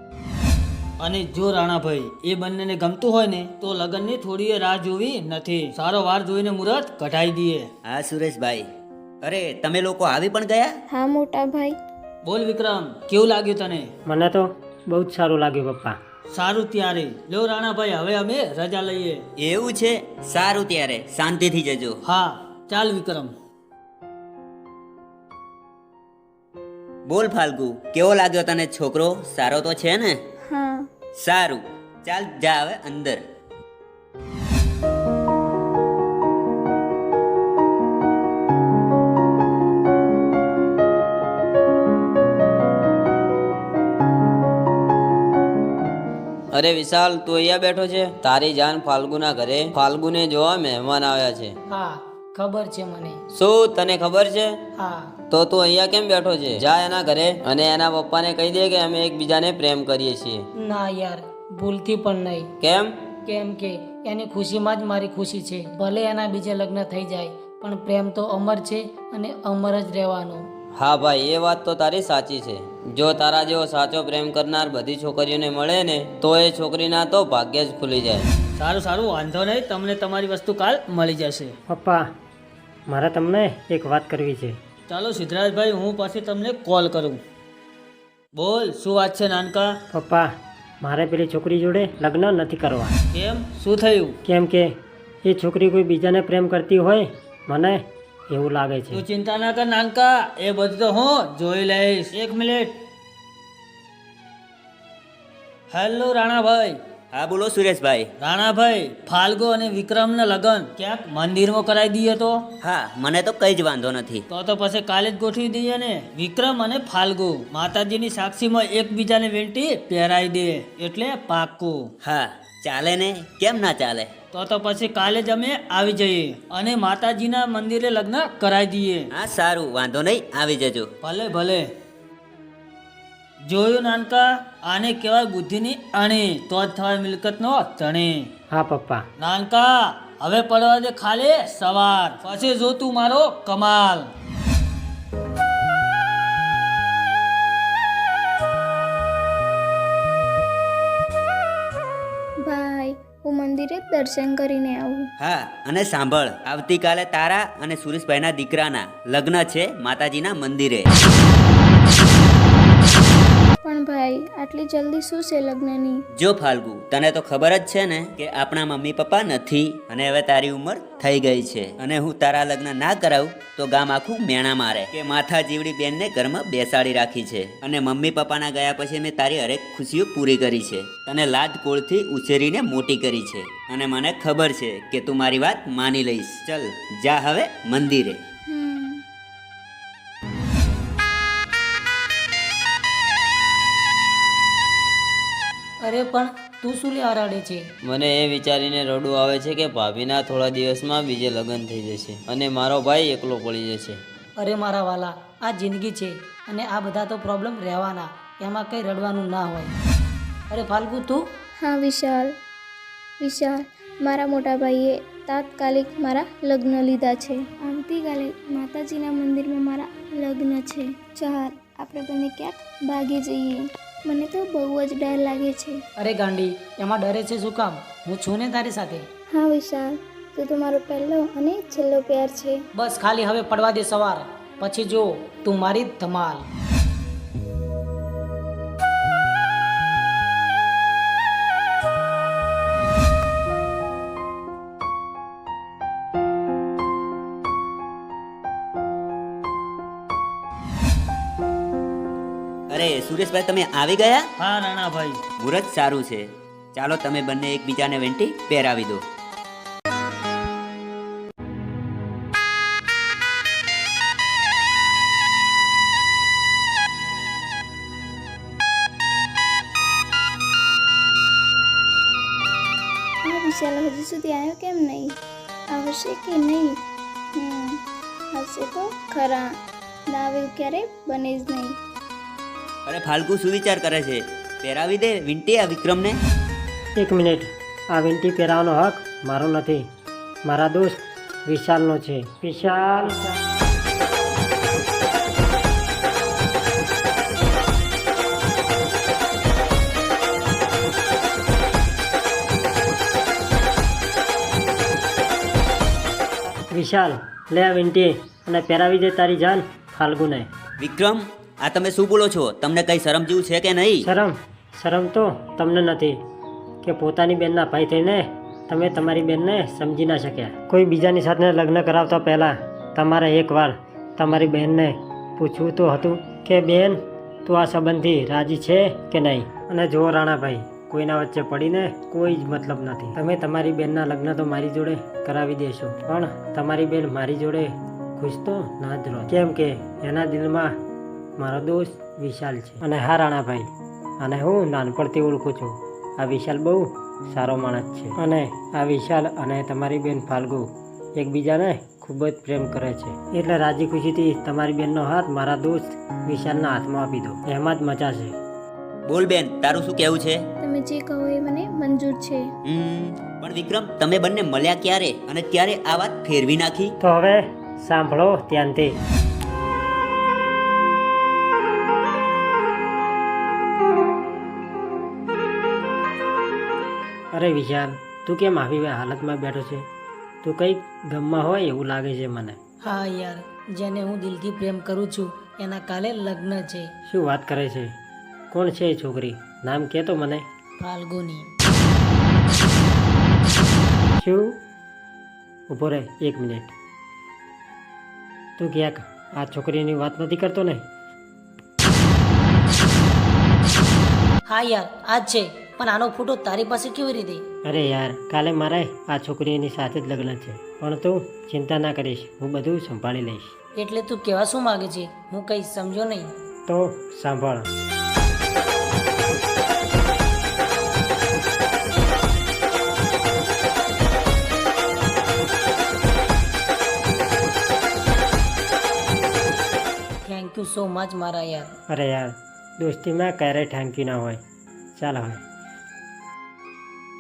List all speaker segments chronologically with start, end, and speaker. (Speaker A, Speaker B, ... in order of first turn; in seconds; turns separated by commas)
Speaker A: 1.0-7.7, Speaker B: 7.8-8.7, Speaker B: 9.2-10.7, Speaker C: 10.9-11.8, Speaker A: 12.2-13.9, Speaker D: 14.1-16.0, Speaker A: 16.3-19.2, Speaker B: 19.4-22.0, Speaker A: 22.1-23.3, Speaker B: 27.1-30.2, Speaker C: 30.5-30.9, Speaker B: 31.2-33.2, Speaker E: 46.5-51.5, Speaker F: 51.7-53.2, Speaker E: 53.3-54.5, Speaker F: 54.8-55.1, Speaker E: 55.3-60.4, Speaker F: 60.6-62.5, Speaker E: 62.6-62.9, Speaker F: 63.2-70.5, Speaker E: 70.8-78.3, Speaker A: 78.6-81.5, Speaker D: 81.7-82.1, Speaker D: 82.9-84.6, Speaker A: 84.9-87.2, Speaker A: 88.4-89.8, Speaker D: 89.9-93.0, Speaker A: 93.1-94.2, Speaker D: 94.2-94.7, Speaker D: 95.2-99.0, Speaker A: 98.9-102.8, Speaker A: 105.7-106.8, Speaker B: 107.1-108.1, Speaker A: 108.2-112.4, Speaker B: 112.6-114.2, Speaker A: 114.3-121.9, Speaker B: 122.0-124.1, Speaker A: 124.3-129.1, Speaker B: 129.1-130.9, Speaker A: 131.0-131.7, Speaker A: 133.5-138.3, Speaker D: 138.5-139.1, Speaker A: 139.2-144.1, Speaker C: 152.4-155.1, Speaker B: 155.2-160.9, Speaker C: 163.6-166.1, Speaker B: 166.2-188.2, Speaker C: 188.5-189.0, Speaker F: 195.8-197.7, Speaker E: 197.8-204.0, Speaker F: 204.4-209.8, Speaker F: 210.5-211.2, Speaker C: 211.6-212.3, Speaker C: 213.2-225.8, Speaker F: 226.0-229.1, Speaker C: 229.3-232.6, Speaker F: 232.8-236.5, Speaker B: 252.7-254.3, Speaker A: 254.4-255.2, Speaker B: 255.4-259.0, Speaker C: 273.2-275.2, Speaker C: 275.7-276.8, Speaker C: 277.4-277.8, Speaker C: 278.3-279.6, Speaker C: 280.1-281.8, Speaker B: 282.9-286.2, Speaker D: 287.0-289.9, Speaker D: 290.5-293.4, Speaker D: 306.7-310.5, Speaker B: 310.8-314.1, Speaker D: 314.0-316.2, Speaker D: 316.8-340.8, Speaker D: 341.4-358.4, Speaker B: 359.1-360.4, Speaker C: 360.6-362.5, Speaker B: 362.6-366.9, Speaker D: 367.0-368.9, Speaker D: 377.3-379.9, Speaker D: 380.4-382.6, Speaker F: 382.8-386.9, Speaker D: 387.1-387.9, Speaker D: 388.5-390.5, Speaker F: 390.8-391.5, Speaker D: 394.2-394.6, Speaker D: 395.7-396.7, Speaker D: 398.6-400.8, Speaker F: 404.5-407.4, Speaker D: 407.7-413.5, Speaker F: 413.8-416.3, Speaker D: 416.7-417.7, Speaker F: 430.2-431.7, Speaker D: 431.9-434.4, Speaker D: 435.0-435.4